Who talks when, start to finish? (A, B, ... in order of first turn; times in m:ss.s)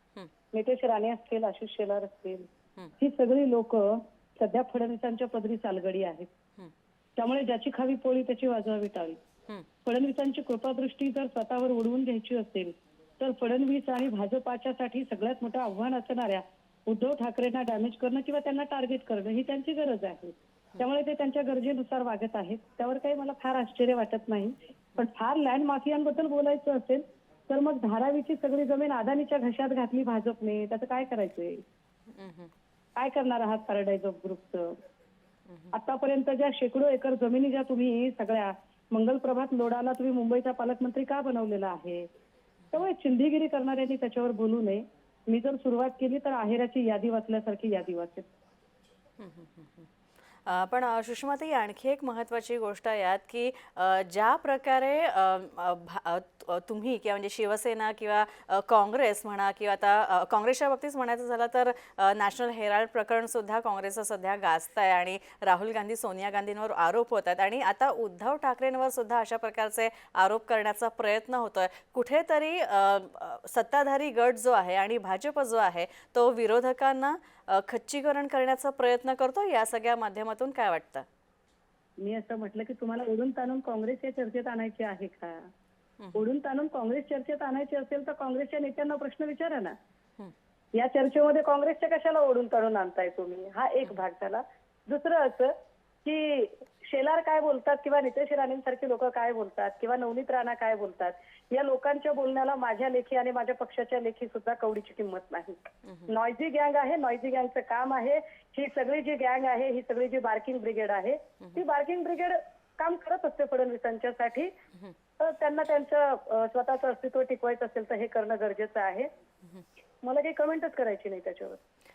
0:00.5-0:06.3 A
0:07.2-0:09.2 A
0:09.8-0:31.6 A
0:32.1-0:32.5 B
0:33.0-0:34.8 A
0:35.5-0:35.7 B
0:35.7-0:42.1 A
0:42.7-0:48.3 A
0:49.2-0:49.9 B
0:50.5-1:21.1 B
1:22.0-1:25.5 A
1:26.0-1:26.2 B
1:26.2-1:29.8 A
1:30.8-1:35.5 A
1:36.0-1:45.6 A
1:45.8-1:46.1 B
1:46.1-1:54.5 A
1:55.2-1:59.1 A
2:00.0-2:01.6 A